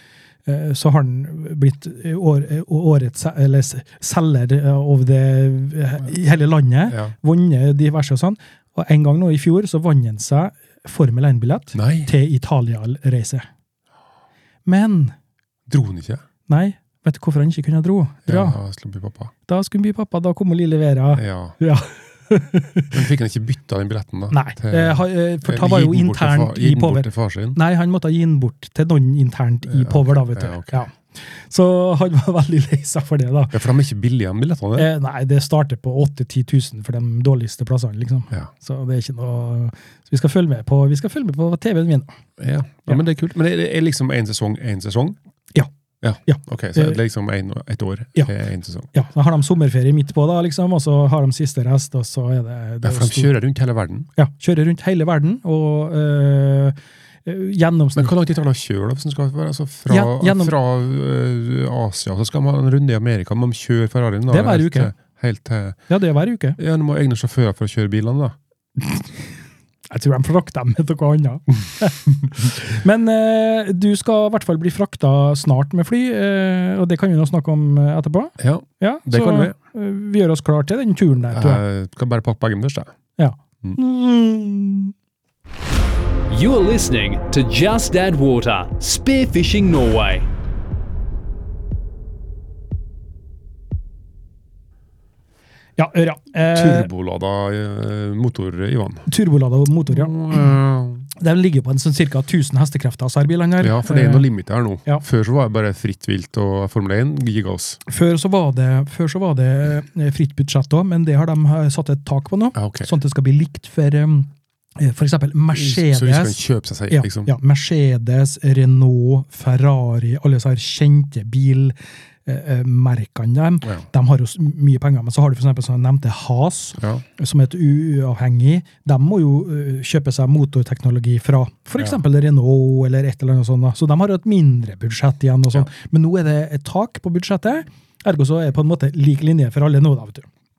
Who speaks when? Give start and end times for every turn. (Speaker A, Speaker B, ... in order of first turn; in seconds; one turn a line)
Speaker A: 0.5-13.5
Speaker B: 11.7-12.1
Speaker A: 14.7-15.1
Speaker B: 15.7-16.2
Speaker A: 16.5-18.6
Speaker B: 18.2-19.3
Speaker A: 19.4-22.9
Speaker B: 21.1-21.6
Speaker B: 22.9-27.6
Speaker A: 24.3-33.6
Speaker B: 29.7-30.8
Speaker B: 33.5-34.9
Speaker A: 34.8-42.1
Speaker B: 42.4-45.2
Speaker B: 46.0-48.9
Speaker A: 46.2-47.0
Speaker A: 48.9-53.3
Speaker B: 52.8-54.1
Speaker A: 54.1-58.1
Speaker B: 58.0-65.8
Speaker A: 59.9-60.5
Speaker A: 64.3-64.9
Speaker A: 65.9-66.6
Speaker B: 66.6-68.3
Speaker A: 68.8-69.2
Speaker A: 69.9-81.6
Speaker B: 78.4-79.5
Speaker B: 81.3-82.9
Speaker A: 83.2-84.9
Speaker C: 86.3-90.3
Speaker A: 95.8-96.9
Speaker B: 96.5-99.1
Speaker A: 99.1-100.4
Speaker B: 99.9-101.1
Speaker A: 101.2-104.2
Speaker B: 103.6-107.8
Speaker A: 107.9-121.7
Speaker B: 112.5-112.9
Speaker B: 115.5-117.3
Speaker A: 122.2-140.3
Speaker B: 126.8-127.0